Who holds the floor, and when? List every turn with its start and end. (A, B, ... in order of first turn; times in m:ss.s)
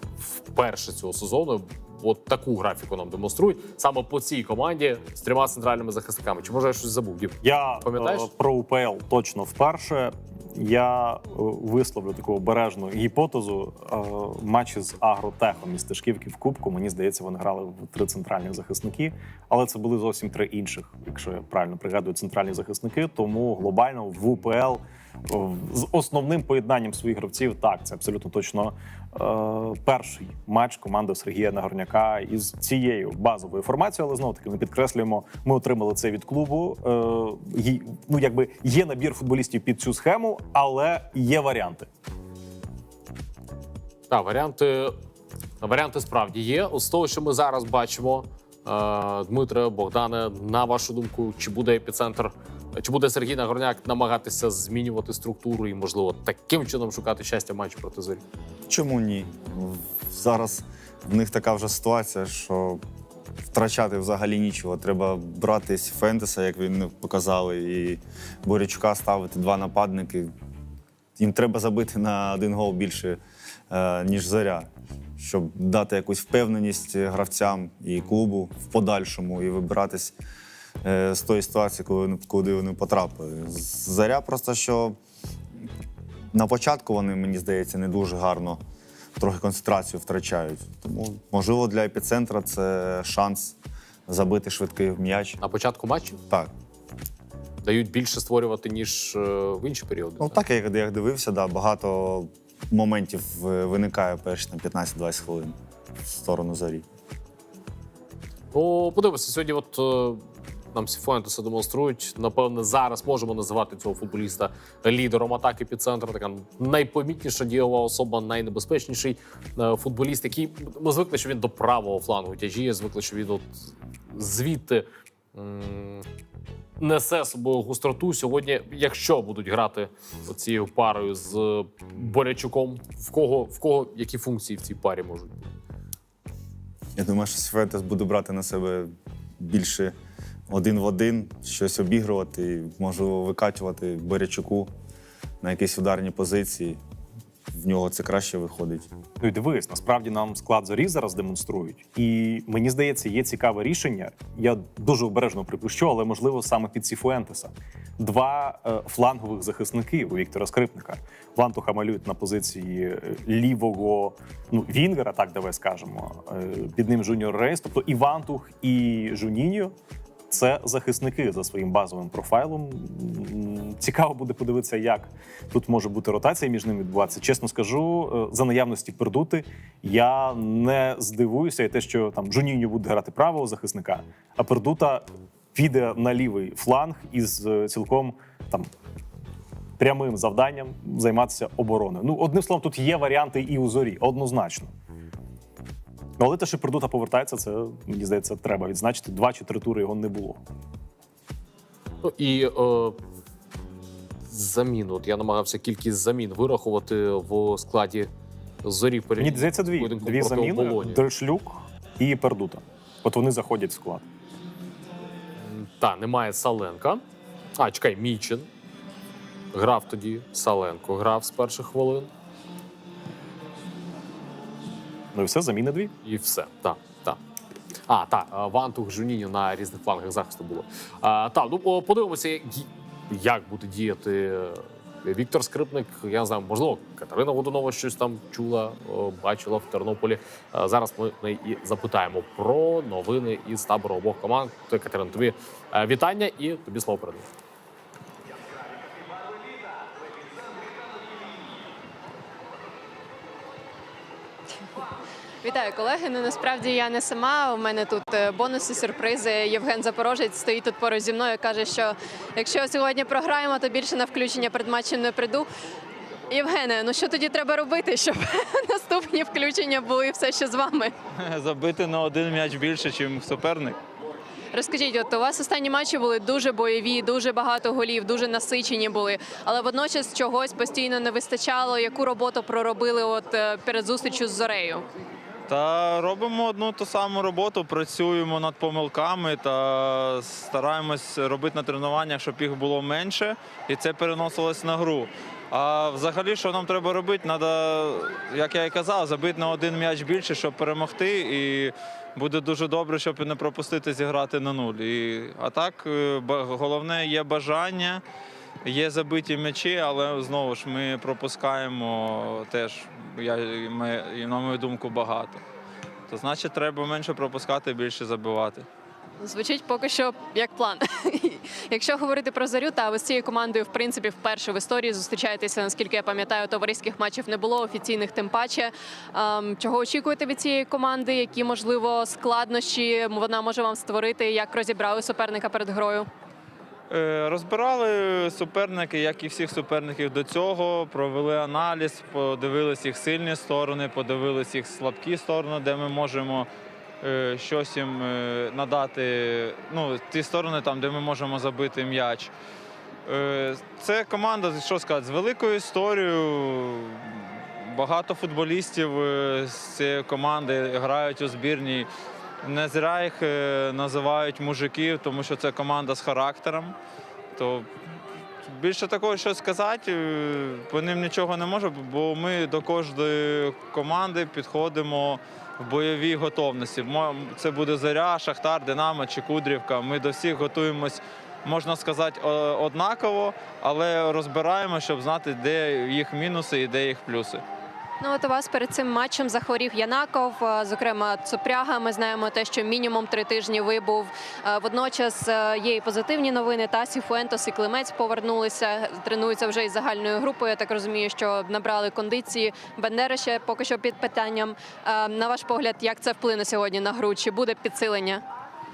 0:00.2-0:08.3 A
0:07.4-0:41.9 B
0:44.1-0:45.0 A
0:45.6-0:58.2 A
0:58.7-1:02.8 C
1:03.5-1:10.3 C
1:11.2-1:20.1 C
1:20.8-1:25.0 C
1:26.3-1:28.6 C
1:29.2-1:35.4 C
1:35.4-1:36.2 A
1:37.6-1:40.4 A
1:40.2-1:45.6 C
1:46.1-1:46.8 C
1:48.5-1:50.2 A
1:50.7-2:06.0 A
2:06.8-2:15.5 A
2:16.9-2:19.9 C
2:20.5-2:24.7 C
2:25.4-2:26.8 C
2:27.5-2:28.9 C
2:29.2-2:49.7 B
2:50.3-3:08.7 B
3:09.8-3:14.7 B
3:16.2-3:20.4 B
3:22.0-3:23.0 A
3:24.3-3:28.1 A
3:28.6-3:31.0 A
3:29.2-3:34.1 B
3:35.4-3:37.0 A
3:37.6-3:38.5 A
3:39.5-3:42.1 A
3:45.1-3:45.9 B
3:46.0-3:47.2 A
3:47.9-4:07.3 A
4:15.4-4:25.5 D
4:26.3-4:30.9 D
4:31.2-4:33.8 E
4:34.5-4:44.8 D
4:45.5-5:08.0 E
5:08.6-5:15.4 E
5:16.1-5:18.6 E
5:19.2-5:36.1 D
5:36.9-5:46.5 E
5:47.0-5:52.3 E
5:53.0-6:01.9 E
6:02.4-6:06.7 E
6:07.3-6:07.7 E
6:08.4-6:27.4 E
6:28.0-6:48.2 D